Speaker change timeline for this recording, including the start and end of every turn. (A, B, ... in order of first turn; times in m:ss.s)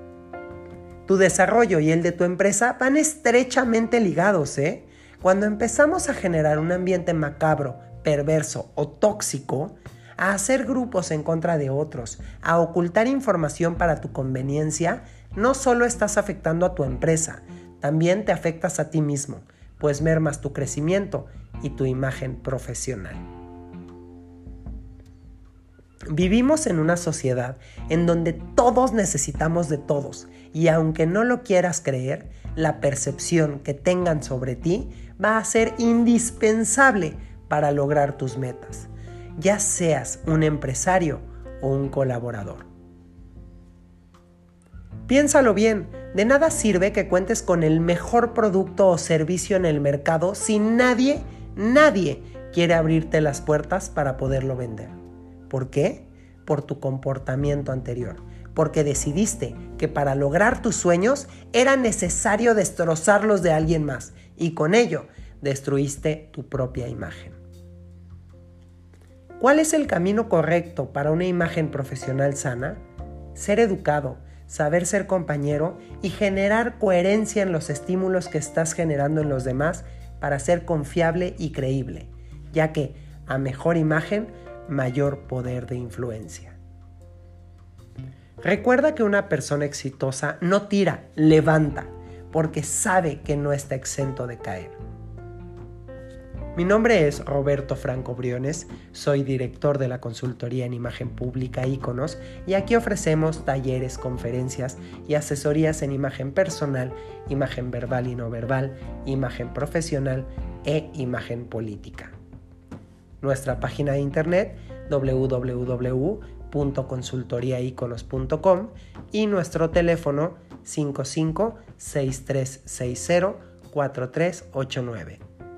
0:01.1-0:23.2 A
0:26.1-0:42.7 A
0:45.1-0:54.9 A
0:55.5-1:07.4 A
1:09.4-1:12.8 A
1:13.3-1:26.6 A
1:28.4-1:34.8 A
1:36.5-1:52.1 A
1:53.2-2:05.2 A